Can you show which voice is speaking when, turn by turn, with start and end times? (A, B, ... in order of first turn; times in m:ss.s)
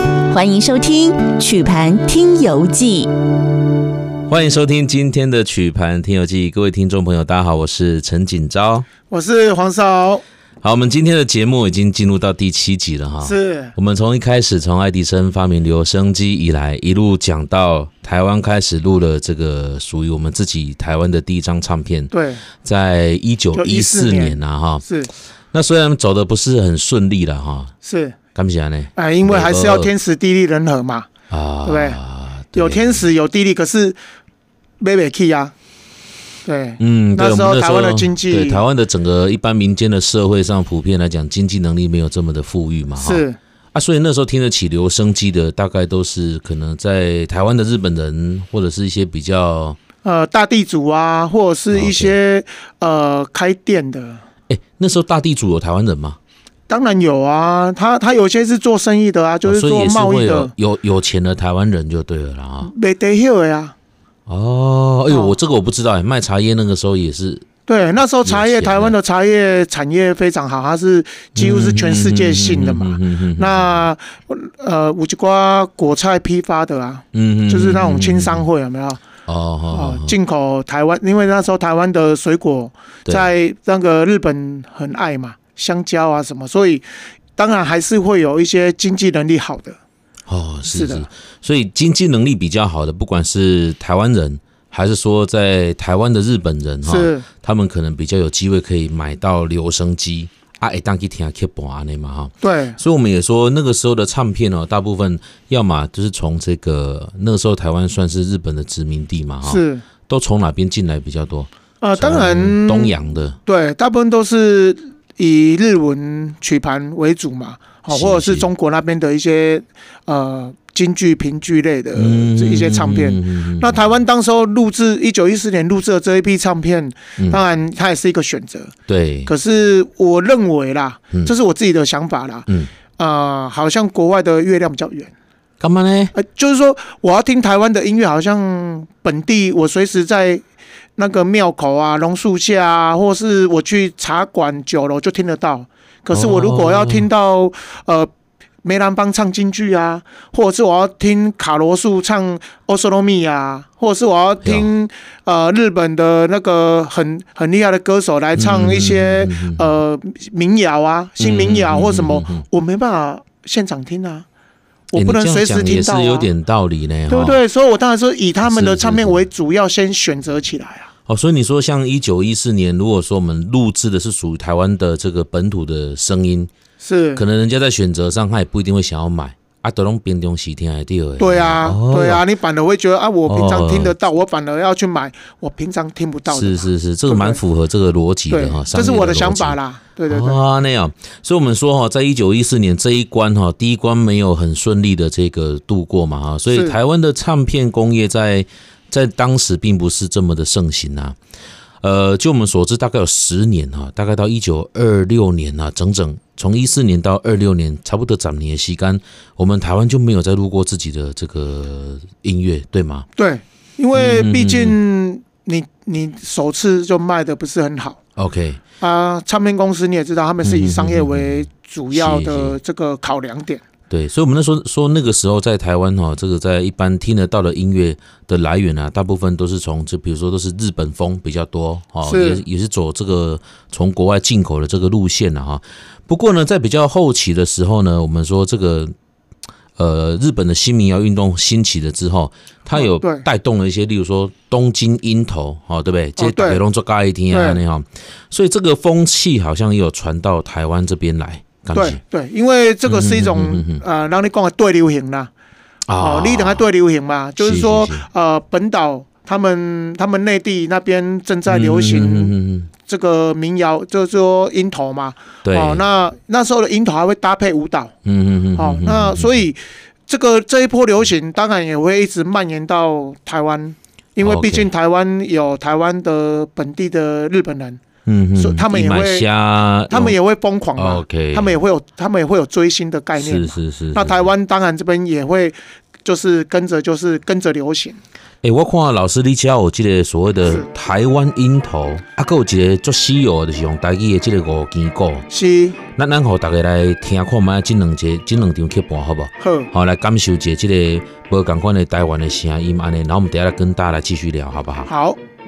0:00.3-0:03.1 A
0:04.3-0:08.9 B
0:09.1-0:10.2 C
0:10.6-0:22.1 B
0:13.2-0:13.7 C
0:22.1-0:22.4 C
0:22.6-0:24.8 B
0:23.5-0:25.1 C
0:25.5-0:27.7 B
0:27.8-0:28.2 C
0:28.3-0:29.9 B
0:28.9-0:31.1 C
0:31.3-0:33.1 B
0:31.6-0:32.0 C
0:32.5-0:34.0 C
0:34.8-0:35.5 C
0:36.4-0:38.6 C
0:36.8-0:49.8 B
0:43.0-0:43.4 C
0:50.0-0:54.2 C
0:51.7-0:52.2 B
0:54.5-0:56.2 B
0:56.7-1:00.5 C
0:59.4-1:02.7 B
1:02.6-1:03.7 C
1:04.3-1:07.4 B
1:05.1-1:05.4 C
1:07.6-1:19.0 C
1:08.2-1:09.0 B
1:11.3-1:13.8 B
1:17.1-1:18.4 B
1:19.3-1:20.2 B
1:19.7-1:26.8 C
1:27.4-1:29.8 C
1:30.3-1:53.4 B
1:30.6-1:31.1 C
1:36.8-1:37.2 C
1:42.4-1:42.8 C
1:49.4-1:49.8 C
1:51.8-2:08.7 C
1:57.9-1:58.5 B
2:01.9-2:03.8 B
2:08.9-2:09.3 B
2:09.2-2:15.1 C
2:15.6-2:16.1 B
2:16.1-2:20.4 C
2:21.0-2:28.1 C
2:26.1-2:27.1 B
2:28.6-2:44.2 C
2:34.4-2:34.7 B
2:38.3-2:39.8 B
2:41.2-2:42.4 B
2:44.9-2:46.3 C
2:44.9-2:47.4 B
2:47.1-2:50.9 C
2:48.4-2:49.2 B
2:51.1-2:56.5 B
2:56.8-2:57.2 C
2:57.1-3:02.2 B
3:01.2-3:07.4 C
3:03.3-3:03.9 B
3:06.3-3:21.2 B
3:08.3-3:10.4 C
3:16.5-3:16.8 C
3:21.8-3:33.1 B
3:33.1-3:38.0 C
3:33.9-3:34.8 B
3:38.2-3:38.6 B
3:38.8-3:43.6 C
3:40.4-3:42.6 B
3:43.9-3:58.9 B
3:52.0-3:52.4 C
3:59.8-4:12.0 B
4:02.7-4:03.2 C
4:06.2-4:06.6 C
4:07.3-4:07.6 C
4:11.7-4:15.3 C
4:12.8-4:13.8 B
4:15.9-4:16.6 B
4:16.0-4:27.9 C
4:17.4-4:18.1 B
4:21.5-4:22.7 B
4:25.4-4:25.8 B
4:28.0-4:29.4 B
4:28.6-4:37.8 C
4:34.2-4:34.7 B
4:38.0-4:40.2 B
4:38.4-4:39.3 C
4:39.9-4:48.0 C
4:40.8-4:41.6 B
4:43.2-4:44.3 B
4:48.4-4:55.3 B
4:55.3-4:55.8 C
4:56.0-5:04.9 B
4:59.4-4:59.7 C
5:04.9-5:05.2 C